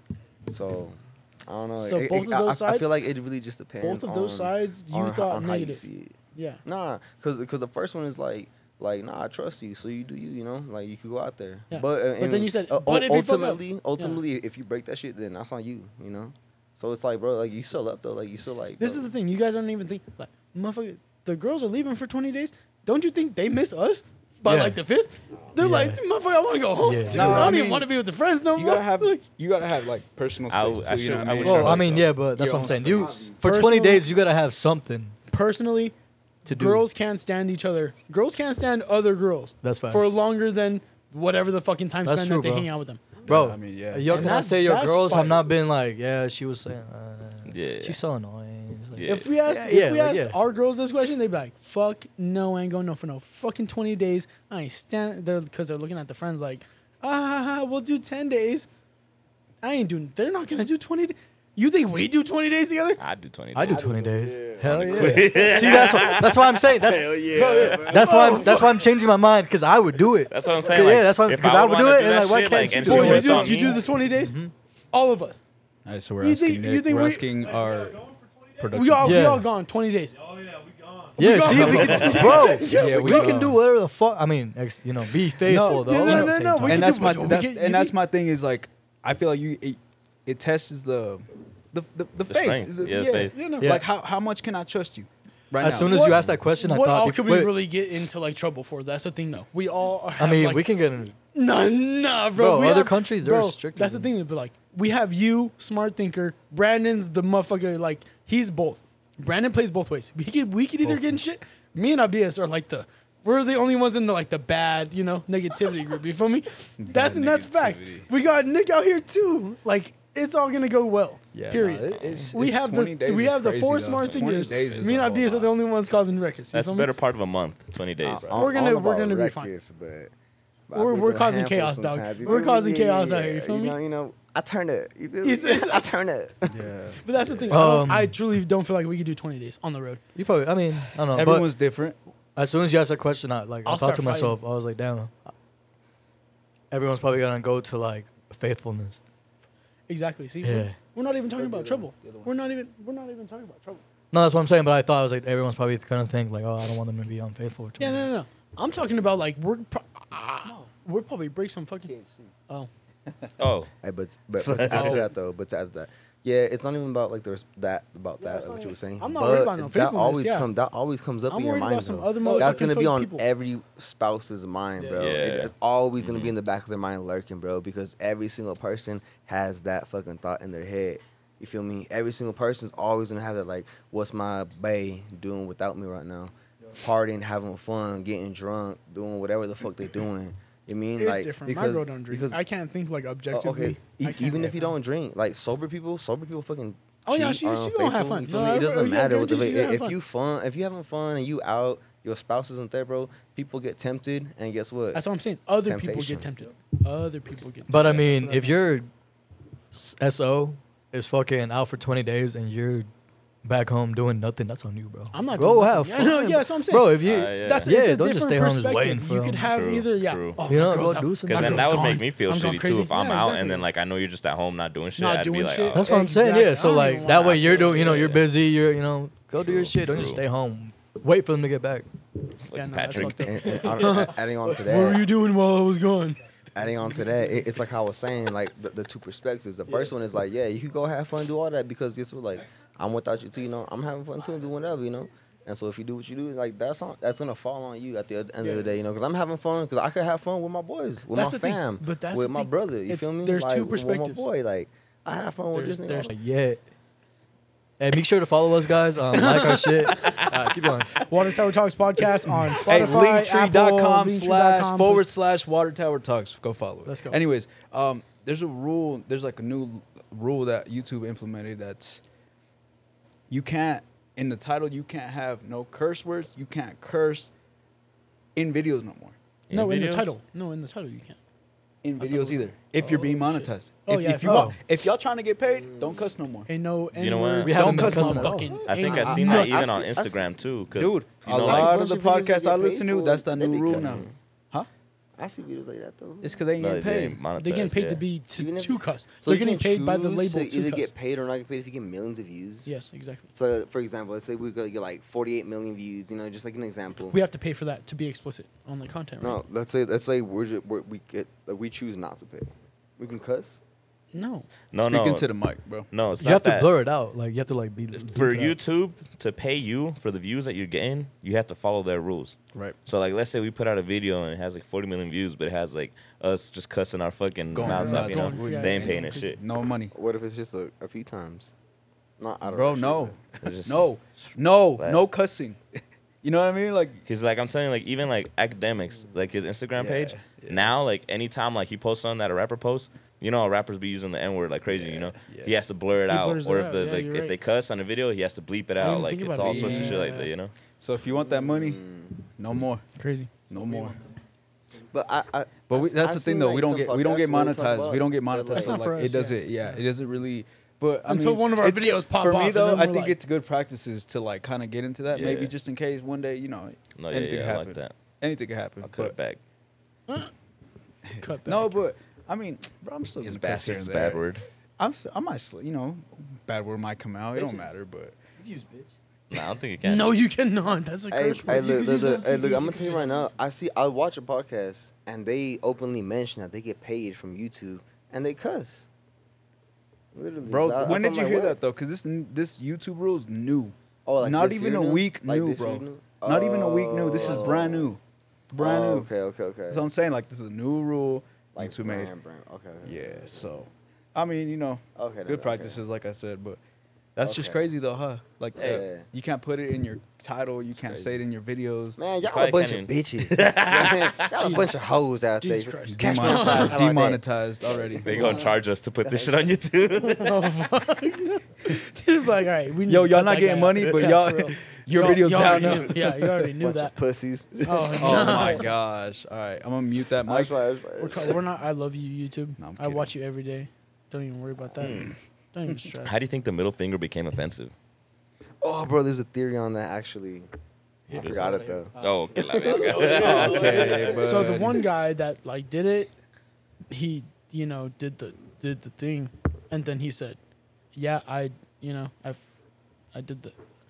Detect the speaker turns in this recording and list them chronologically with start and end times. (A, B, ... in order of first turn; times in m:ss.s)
0:00.5-0:19.1 A
0:01.8-0:02.9 B
0:03.8-0:05.8 B
0:06.4-0:06.6 B
0:11.7-0:14.2 B
0:18.8-0:29.2 B
0:24.5-0:24.8 C
0:25.6-0:26.0 C
0:26.8-0:27.6 C
0:27.1-0:27.9 D
0:28.5-0:33.4 D
0:30.5-0:32.1 E
0:31.4-0:35.2 C
0:33.4-0:34.0 B
0:35.3-0:43.0 B
0:36.4-0:36.9 C
0:39.6-0:40.1 C
0:42.0-0:42.7 C
0:43.3-0:44.4 D
0:43.3-0:50.4 C
0:44.1-0:45.4 B
0:47.5-0:48.0 E
0:49.0-0:49.3 E
0:49.1-0:58.7 B
0:59.6-1:03.0 B
1:03.0-1:03.9 E
1:03.5-1:14.5 C
1:03.6-1:06.2 A
1:04.8-1:06.6 E
1:06.8-1:08.4 A
1:07.9-1:08.8 B
1:10.3-1:13.8 E
1:12.6-1:14.4 B
1:14.9-1:15.4 B
1:15.8-1:19.3 D
1:16.2-1:17.5 B
1:18.7-1:20.5 B
1:19.0-1:19.4 C
1:21.2-1:23.5 B
1:21.2-1:27.4 C
1:21.3-1:23.6 D
1:21.7-1:22.4 E
1:25.4-1:36.3 D
1:25.6-1:28.0 B
1:32.3-1:33.3 E
1:32.9-1:33.7 B
1:33.6-1:33.9 C
1:35.6-1:37.5 C
1:35.8-1:40.7 B
1:40.2-1:41.2 C
1:41.3-2:06.9 B
1:42.3-1:44.1 C
1:50.9-1:51.2 D
1:56.8-1:58.1 D
2:01.3-2:05.5 D
2:02.0-2:02.3 E
2:06.5-2:08.3 E
2:08.1-2:10.1 A
2:08.3-2:09.5 B
2:10.7-2:16.6 A
2:10.7-2:13.8 B
2:15.2-2:15.9 B
2:16.5-2:17.0 D
2:17.0-2:20.0 B
2:17.5-2:18.2 C
2:20.2-2:21.5 C
2:21.1-2:22.0 D
2:22.4-2:25.1 C
2:23.6-2:24.4 B
2:26.7-2:29.0 C
2:29.9-2:33.8 B
2:30.4-2:30.8 C
2:31.3-2:32.3 D
2:34.1-2:38.1 C
2:37.8-2:41.9 B
2:41.9-2:42.3 D
2:43.4-2:43.7 E
2:43.8-3:12.4 A
2:44.4-2:45.0 E
2:44.7-2:45.0 B
2:48.2-2:50.5 B
2:51.3-2:53.3 B
2:55.0-2:56.3 E
3:11.0-3:14.7 B
3:13.3-3:25.0 A
3:17.1-3:20.0 B
3:24.9-3:28.7 B
3:25.6-3:26.3 A
3:27.7-3:28.9 C
3:29.7-3:32.9 C
3:33.4-3:39.5 C
3:35.1-3:43.6 B
3:37.0-3:37.7 E
3:39.5-3:40.4 E
3:40.4-3:42.0 C
3:41.2-3:45.9 E
3:45.0-3:48.0 B
3:45.8-3:51.9 C
3:47.2-3:48.3 E
3:47.5-3:47.8 A
3:49.4-3:50.2 E
3:52.5-3:53.6 E
3:52.6-3:56.2 B
3:53.1-3:55.1 A
3:56.5-4:16.1 A
4:11.1-4:14.2 B
4:15.5-4:16.1 B
4:16.1-4:16.6 C
4:17.8-4:21.1 C
4:19.2-4:19.9 B
4:19.3-4:19.6 D
4:21.0-4:25.1 B
4:22.5-4:32.0 D
4:26.8-4:27.2 B
4:33.3-4:37.3 D
4:38.4-4:39.2 D
4:39.5-4:40.1 E
4:39.5-4:41.2 B
4:41.8-4:46.5 D
4:42.0-4:44.5 B
4:44.2-4:44.6 C
4:46.5-4:49.7 B
4:46.9-4:47.7 E
4:47.4-4:48.5 C
4:47.5-4:48.5 D
4:48.6-4:50.4 A
4:48.6-4:51.8 E
4:50.8-4:54.7 D
4:51.3-4:54.1 A
4:55.2-4:56.4 A
4:56.2-4:57.2 D
4:56.6-4:58.0 E
4:57.4-5:00.9 B
4:58.4-5:02.7 A
5:02.6-5:03.3 B
5:03.3-5:07.2 A
5:07.1-5:09.4 B
5:09.2-5:13.6 A
5:14.1-5:14.5 B
5:14.7-5:15.3 E
5:14.8-5:15.9 D
5:15.9-5:16.7 E
5:16.2-5:18.6 C
5:17.9-5:29.4 E
5:27.5-5:29.9 D
5:27.6-5:29.3 B
5:29.9-5:31.5 A
5:32.2-5:33.2 A
5:32.5-5:35.6 D
5:33.4-5:35.0 E
5:36.2-5:37.0 D
5:37.1-5:50.5 E
5:39.8-5:40.7 D
5:44.9-5:45.6 D
5:46.0-5:47.4 B
5:48.8-5:50.3 B
5:49.4-5:50.1 D
5:50.8-5:51.8 D
5:51.2-5:52.2 A
5:52.4-5:52.8 D
5:53.0-5:53.3 B
5:53.5-5:54.0 D
5:54.9-5:58.9 A
5:55.7-6:09.2 D
5:58.5-5:59.8 B
6:01.1-6:03.2 B
6:05.1-6:05.5 E
6:07.0-6:08.0 E
6:08.8-6:09.4 E
6:11.1-6:14.2 D
6:11.2-6:11.8 B
6:13.2-6:14.4 E
6:14.8-6:18.2 D
6:18.4-6:18.9 C
6:19.3-6:20.2 E
6:19.8-6:22.8 B
6:21.1-6:28.9 A
6:30.1-6:31.6 A
6:30.4-6:38.0 D
6:34.1-6:37.9 A
6:38.5-6:39.1 D
6:38.6-6:39.9 A
6:39.7-6:42.1 D
6:41.6-6:43.5 A
6:42.8-6:46.6 D
6:45.0-6:45.8 A
6:47.2-6:52.0 D
6:47.2-6:47.7 A
6:48.6-6:48.8 E
6:48.6-6:49.1 A
6:50.8-6:51.1 E
6:52.0-6:59.7 A
6:52.2-6:54.4 E
6:54.4-6:54.9 B
6:55.4-6:56.8 B
6:55.9-6:58.4 D
6:58.0-7:00.4 E
7:00.0-7:07.0 B
7:02.9-7:06.5 D
7:06.6-7:08.6 A
7:07.6-7:08.7 B
7:08.0-7:10.6 D
7:10.3-7:11.4 A
7:11.0-7:16.2 B
7:12.6-7:13.1 D
7:14.8-7:15.1 E
7:16.0-7:17.7 E
7:18.6-7:20.5 A
7:21.1-7:24.1 A
7:21.1-7:23.1 C
7:21.1-7:24.2 E
7:23.1-7:24.9 D
7:24.1-7:26.1 B
7:26.9-7:30.4 B
7:31.0-7:32.5 B
7:33.1-7:33.6 B